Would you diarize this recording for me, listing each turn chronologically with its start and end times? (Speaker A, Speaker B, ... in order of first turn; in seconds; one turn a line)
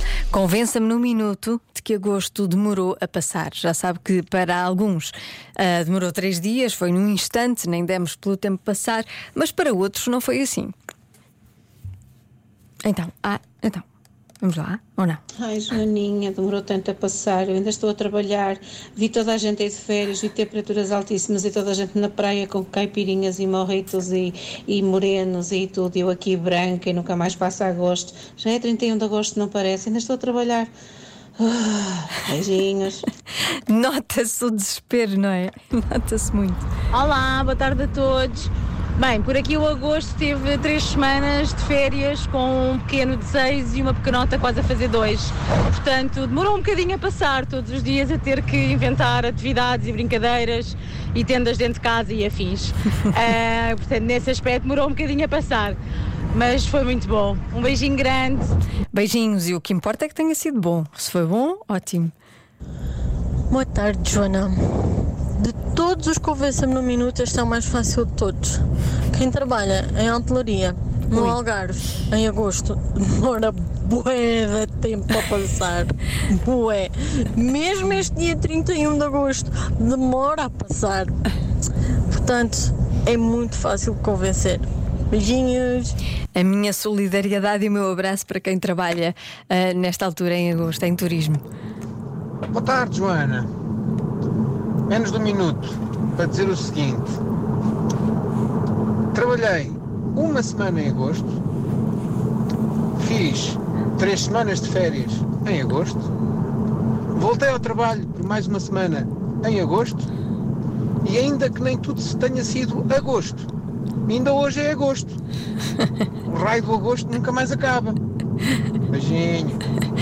Speaker A: 0.3-10.7
Speaker A: 12.8-13.8
Speaker A: 14.4-15.2
Speaker B: 15.4-30.7
Speaker B: 31.4-33.0
Speaker A: 33.7-36.6
Speaker C: 36.9-55.8
Speaker C: 56.3-58.5
Speaker A: 58.9-62.1
Speaker D: 63.5-81.2
Speaker D: 82.1-86.0
Speaker A: 86.3-91.4
Speaker E: 92.5-93.5
Speaker E: 94.9-97.2
Speaker E: 99.1-101.4
Speaker E: 103.0-106.1
Speaker E: 107.1-110.1
Speaker E: 111.0-113.5
Speaker E: 114.1-115.2
Speaker E: 116.3-118.0
Speaker E: 118.9-119.6